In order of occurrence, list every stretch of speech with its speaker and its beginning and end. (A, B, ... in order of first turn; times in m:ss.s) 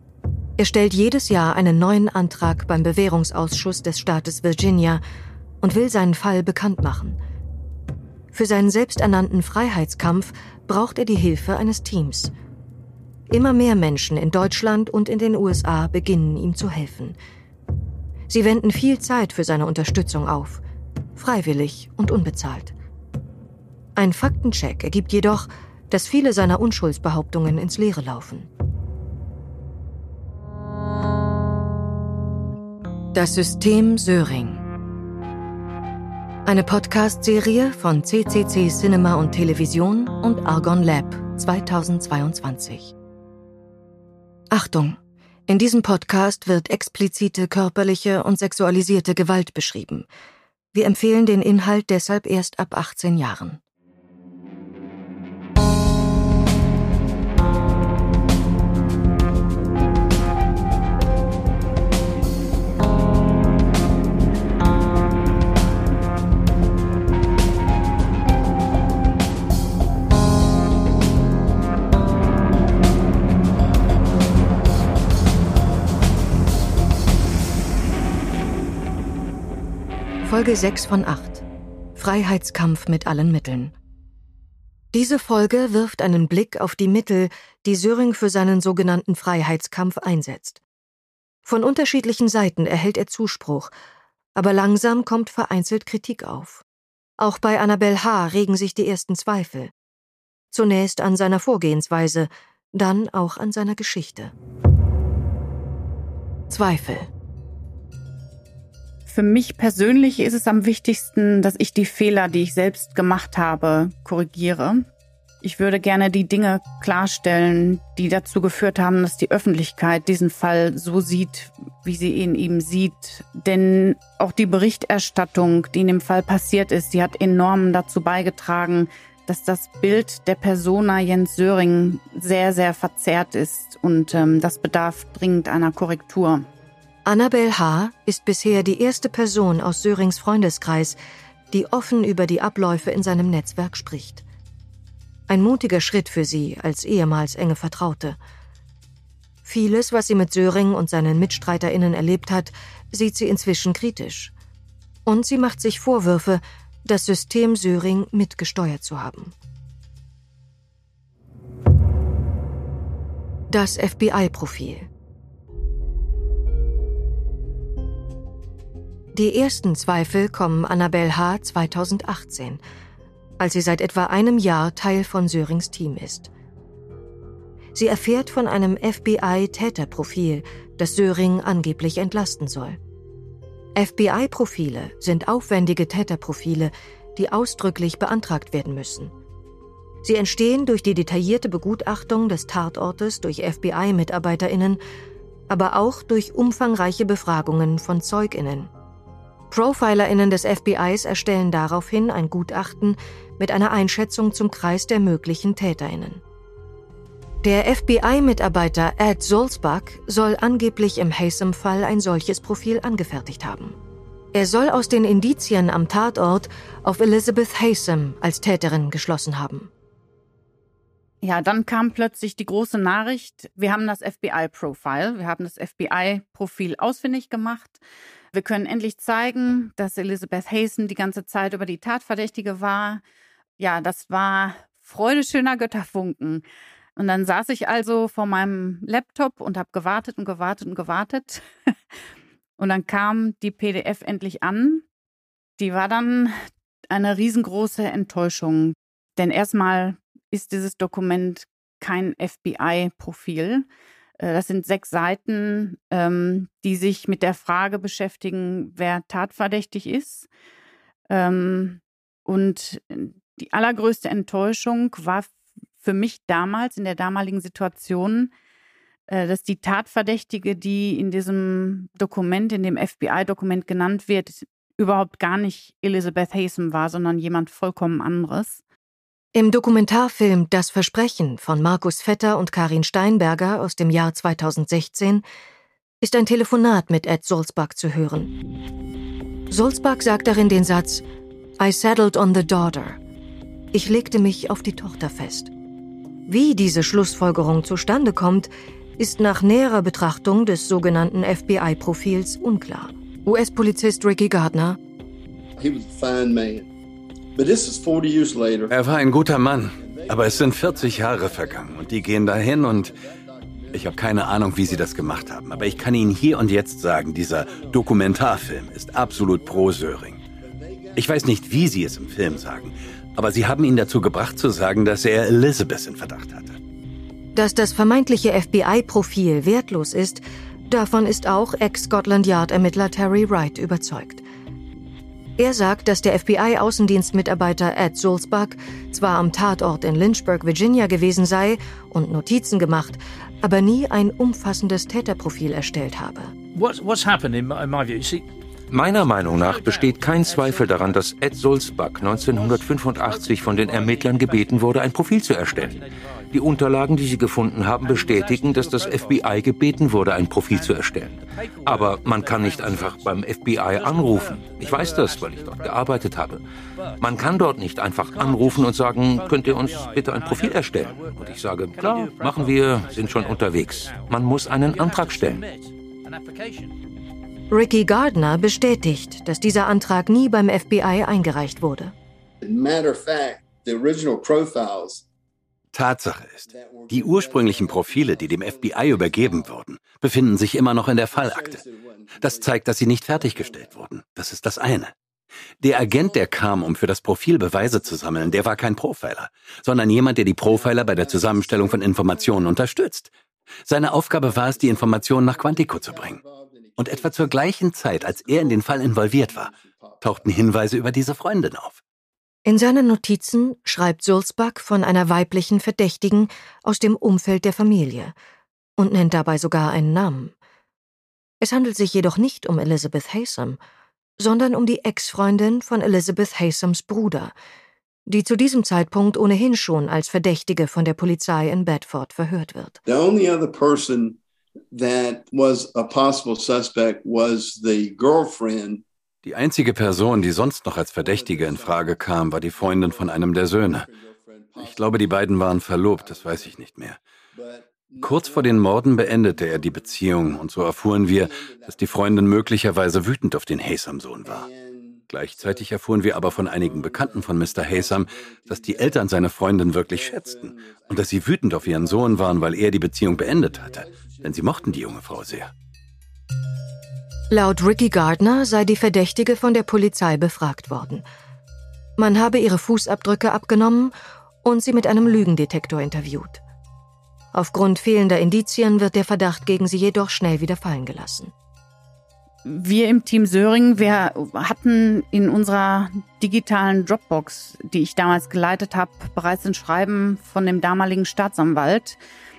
0:00.6-0:05.0 A
0:05.6-0:07.2 A
0:08.3-0:12.3 A
0:13.3-0:17.2 A
0:18.3-0:20.6 A
0:21.2-0:22.7 A
0:24.0-0:28.5 A
0:33.1-0:34.6 A
0:36.4-0:42.9 A
0:44.5-0:50.1 A
0:50.7-0:53.6 A
1:20.2-1:21.4 A
1:22.0-1:23.7 A
1:24.9-1:30.6 A
1:31.4-1:33.7 A
1:34.3-1:36.6 A
1:37.2-1:39.7 A
1:40.5-1:44.3 A
1:46.5-1:47.1 A
1:49.1-1:54.8 B
1:55.4-2:16.5 B
2:17.0-2:21.0 A
2:21.5-2:24.2 A
2:25.3-2:28.2 A
2:29.4-2:34.3 A
2:35.0-2:39.3 A
2:43.5-2:44.9 A
2:49.1-2:52.6 A
2:53.4-2:56.3 A
2:57.7-3:02.8 A
3:03.8-3:09.1 A
3:10.0-3:14.8 A
3:15.5-3:18.7 A
3:19.5-3:26.2 A
3:27.4-3:33.8 A
3:34.3-3:39.7 A
3:41.2-3:47.8 B
3:48.3-3:53.0 B
3:53.6-3:56.4 B
3:57.0-4:01.4 B
4:02.6-4:04.8 B
4:05.6-4:06.4 B
4:06.9-4:13.6 B
4:14.2-4:20.3 B
4:21.1-4:28.3 B
4:29.1-4:38.6 B
4:39.3-4:45.2 A
4:46.0-4:48.3 A
4:49.5-4:51.0 A
4:51.6-4:53.0 A
4:53.7-4:55.5 A
4:56.3-5:04.8 A
5:05.6-5:06.7 C
5:07.4-5:08.8 C
5:08.7-5:12.9 D
5:09.7-5:16.3 C
5:13.7-5:20.2 D
5:17.2-5:23.9 C
5:20.9-5:26.6 D
5:27.3-5:34.2 A
5:35.4-5:46.3 A
5:46.5-5:56.4 E
5:48.7-6:06.4 F
5:57.8-5:59.6 E
6:00.4-6:16.8 E
6:07.0-6:15.4 F
6:17.5-6:21.9 A
6:22.4-6:25.0 C
6:25.7-6:31.6 D
6:26.5-6:29.8 C
6:31.0-6:33.8 C
6:32.2-6:34.9 D
6:35.6-6:43.1 D
6:35.8-6:36.2 C
6:37.9-6:38.4 C
6:40.4-6:42.6 C
6:43.7-6:46.2 D
6:43.9-6:50.4 C
6:46.8-6:51.8 D
6:52.4-6:58.1 A
6:58.8-7:00.3 A
7:01.4-7:03.6 A
7:04.2-7:07.3 A
7:08.1-7:12.8 A
7:12.8-7:14.2 C
7:14.7-7:18.8 C
7:19.2-7:23.9 D
7:21.0-7:25.1 C
7:24.6-7:27.0 D
7:25.8-7:26.6 C
7:27.3-7:32.6 C
7:28.0-7:34.5 D
7:34.2-7:42.6 C
7:35.1-7:45.5 D
7:43.1-7:45.0 C
7:47.3-7:51.0 A
7:52.0-7:53.9 A
7:54.4-7:56.4 A
7:57.3-8:01.3 A
8:02.4-8:12.0 B